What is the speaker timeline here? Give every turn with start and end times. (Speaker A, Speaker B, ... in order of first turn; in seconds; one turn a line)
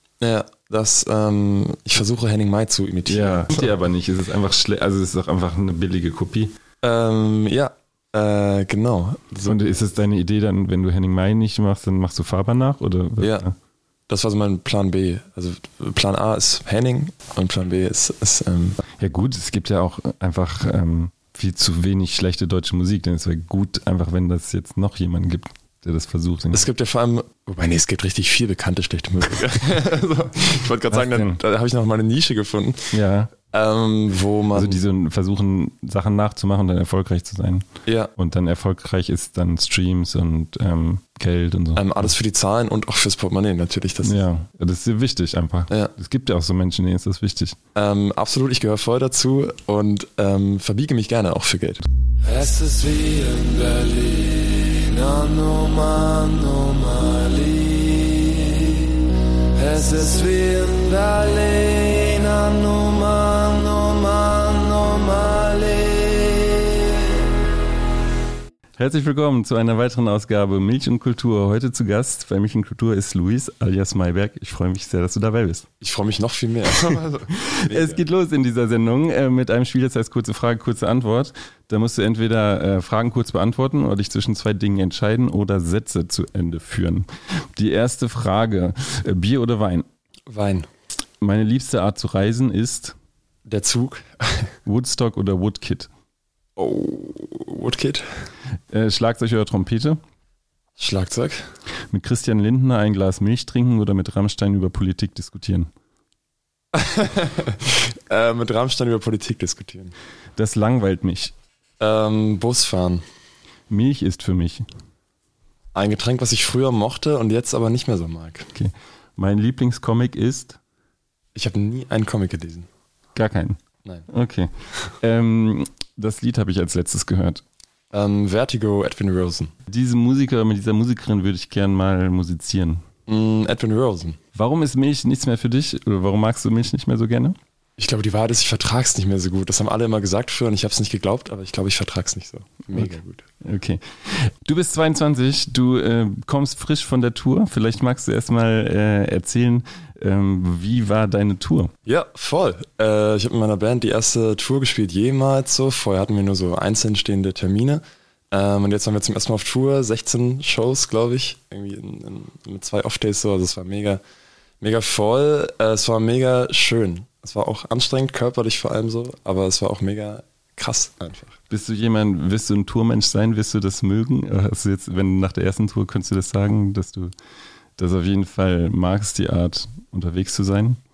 Speaker A: 0.2-3.7
Speaker B: 3.1-6.5
Speaker A: 6.8-9.6
Speaker B: 9.4-13.5
Speaker A: 13.2-13.4
Speaker A: 14.1-18.8
Speaker B: 19.0-26.7
Speaker A: 26.5-33.0
Speaker B: 30.9-31.4
Speaker B: 32.9-33.3
Speaker A: 33.5-34.8
Speaker B: 34.5-42.1
Speaker A: 37.9-38.1
Speaker A: 41.8-44.2
Speaker B: 44.0-47.6
Speaker A: 47.7-51.8
Speaker C: 52.2-59.0
Speaker C: 59.5-67.2
Speaker B: 68.8-75.7
Speaker A: 75.8-78.0
Speaker B: 76.9-89.9
Speaker A: 90.3-90.7
Speaker B: 91.2-93.0
Speaker A: 93.5-94.5
Speaker B: 94.7-95.9
Speaker A: 96.6-98.1
Speaker B: 98.7-100.0
Speaker A: 100.8-101.4
Speaker B: 101.9-105.7
Speaker A: 106.7-109.9
Speaker B: 110.4-111.3
Speaker A: 111.8-113.0
Speaker B: 113.7-114.7
Speaker A: 115.7-118.5
Speaker B: 118.5-120.6
Speaker A: 121.3-122.7
Speaker B: 123.1-127.4
Speaker A: 127.9-129.5
Speaker B: 129.7-132.8
Speaker A: 133.1-134.2
Speaker B: 134.3-137.4
Speaker A: 137.8-143.2
Speaker B: 142.7-151.7
Speaker A: 151.8-164.0
Speaker A: 164.6-171.4
Speaker B: 171.5-177.1
Speaker B: 177.8-180.8